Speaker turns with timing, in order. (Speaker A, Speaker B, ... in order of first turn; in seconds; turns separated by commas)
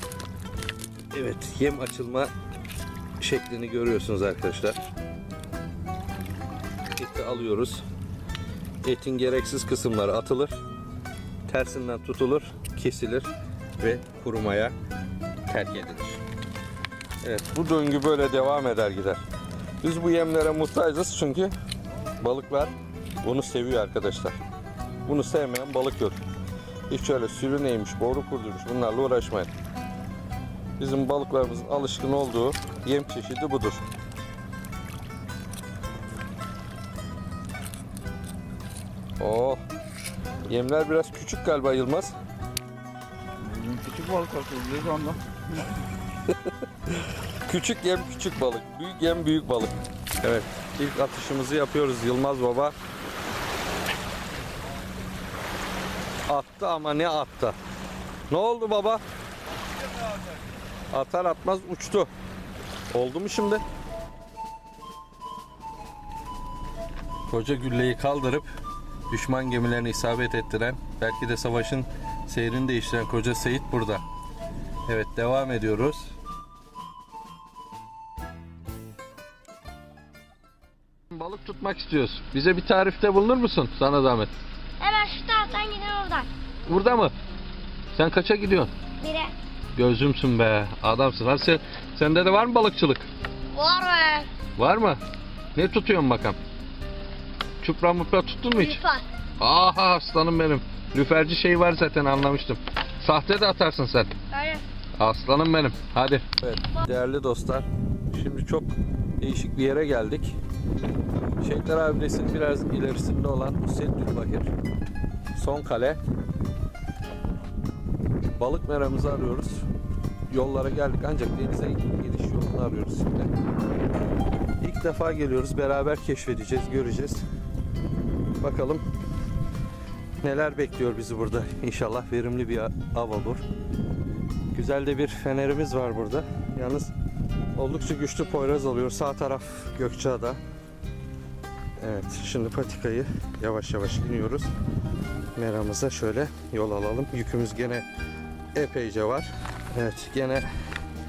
Speaker A: 1.1-2.3, Speaker A: 3.2-4.9, Speaker A: 7.0-7.8, Speaker A: 8.8-10.6, Speaker A: 11.5-14.8, Speaker A: 15.5-16.2, Speaker A: 17.2-19.2, Speaker A: 19.8-21.5, Speaker A: 22.2-24.4, Speaker A: 25.1-26.2, Speaker A: 26.9-29.5, Speaker A: 30.8-33.8, Speaker A: 39.2-39.6, Speaker A: 40.5-42.1, Speaker B: 43.4-45.8, Speaker A: 46.9-52.8, Speaker A: 56.3-57.6, Speaker A: 58.3-59.0, Speaker A: 60.9-62.1, Speaker A: 62.9-63.6, Speaker A: 67.3-68.5, Speaker A: 69.1-74.0, Speaker A: 74.9-76.1, Speaker A: 81.1-84.3, Speaker C: 84.8-86.3, Speaker A: 86.7-87.1, Speaker A: 87.9-88.7, Speaker C: 89.0-89.3, Speaker A: 89.8-93.1, Speaker C: 93.5-94.3, Speaker A: 94.6-95.0, Speaker A: 95.5-96.4, Speaker A: 97.6-98.8, Speaker C: 98.6-99.0, Speaker A: 99.4-104.1, Speaker C: 104.3-104.6, Speaker A: 105.0-110.4, Speaker A: 111.4-114.5, Speaker A: 115.3-116.0, Speaker A: 118.3-119.7, Speaker A: 120.3-123.3, Speaker A: 124.6-127.2, Speaker A: 128.4-128.8, Speaker A: 130.2-133.4, Speaker A: 134.5-136.9, Speaker A: 137.6-140.4, Speaker A: 141.8-144.5, Speaker A: 145.3-147.9, Speaker A: 148.6-150.5